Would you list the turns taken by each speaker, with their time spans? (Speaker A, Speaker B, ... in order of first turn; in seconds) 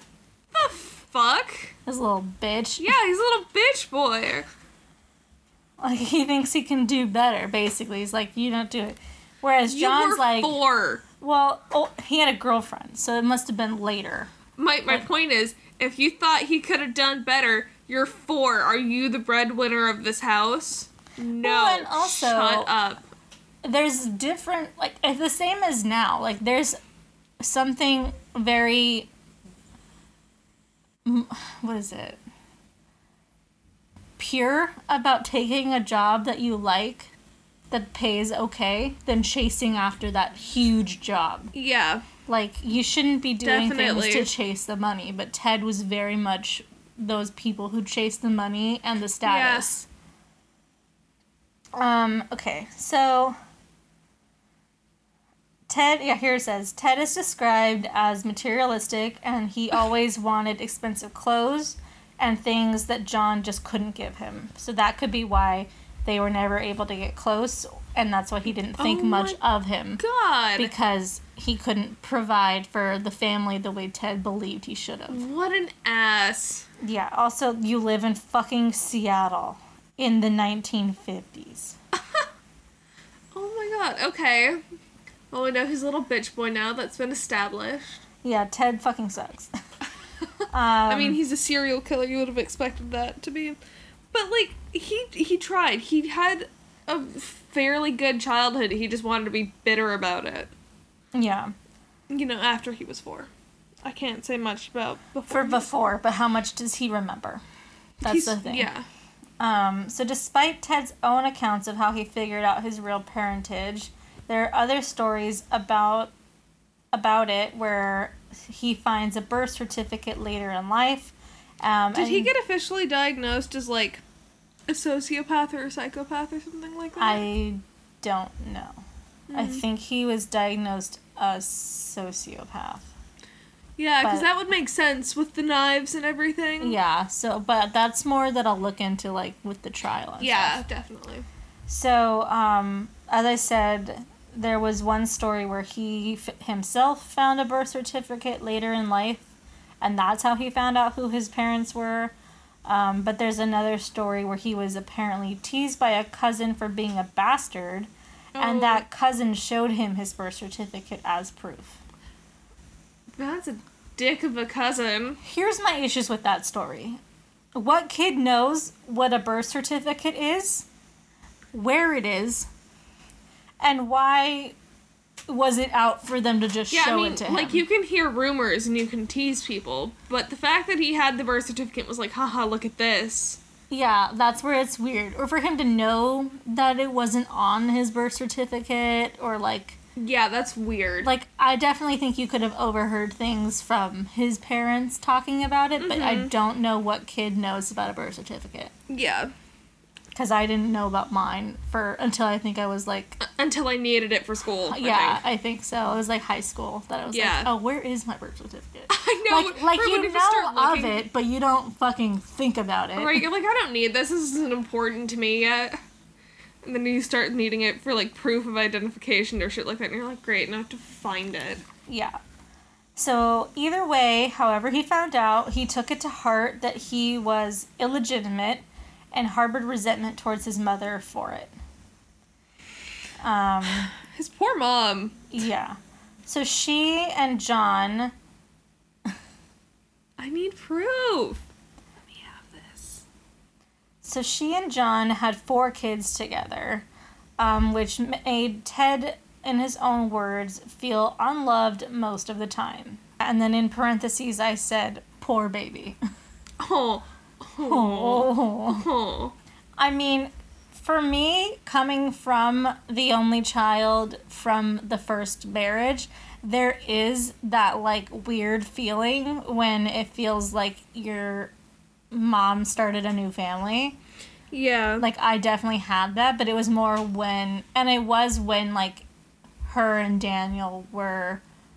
Speaker A: 0.5-1.7, 2.8-4.5, 9.7-11.0, 14.6-23.0, 41.5-42.1, 43.4-44.3, 49.2-49.7, 68.8-69.4, 70.0-70.7, 75.1-76.7, 82.0-82.3, 83.3-84.6, 85.3-88.0, 90.9-93.6, 94.1-100.5, 102.1-103.3, 103.8-105.6, 108.0-108.9, 121.9-124.0, 124.7-127.2, 129.3-129.6, 133.8-136.8, 140.2-141.2, 158.3-158.8, 163.2-165.2, 176.7-183.4, 189.9-191.1, 195.8-196.3, 198.9-199.3, 203.2-205.2, 207.1-207.5, 208.9-211.0, 212.9-215.8, 216.6-221.6, 233.9-235.2, 240.2-241.4, 242.1-243.1, 256.6-259.4, 274.5-275.1
Speaker B: 1.9-2.9, 5.8-10.6, 11.2-14.3, 21.4-22.7, 23.6-26.8, 27.4-29.1, 31.1-32.2, 34.2-37.1, 37.7-41.5, 42.2-49.9, 51.8-53.4, 55.7-70.0, 70.6-75.2, 76.8-81.8, 88.2-89.5, 90.5-91.2, 101.1-101.5, 105.3-107.4, 108.0-108.7, 109.4-116.1, 116.9-122.3, 127.0-128.8, 129.3-132.9, 134.0-134.3, 136.6-140.6, 141.7-149.2, 149.8-152.1, 152.6-161.8, 165.2-167.0, 167.6-170.7, 171.5-172.5, 173.6-174.6, 175.3-177.6, 183.7-189.8, 191.0-198.7, 200.1-203.2, 204.7-213.2, 221.9-222.2, 222.9-231.5, 233.2-233.9, 235.3-238.1, 244.0-246.9, 247.4-256.0, 257.6-258.9, 259.8-271.5, 272.1-274.0, 275.0-279.1, 279.6-281.4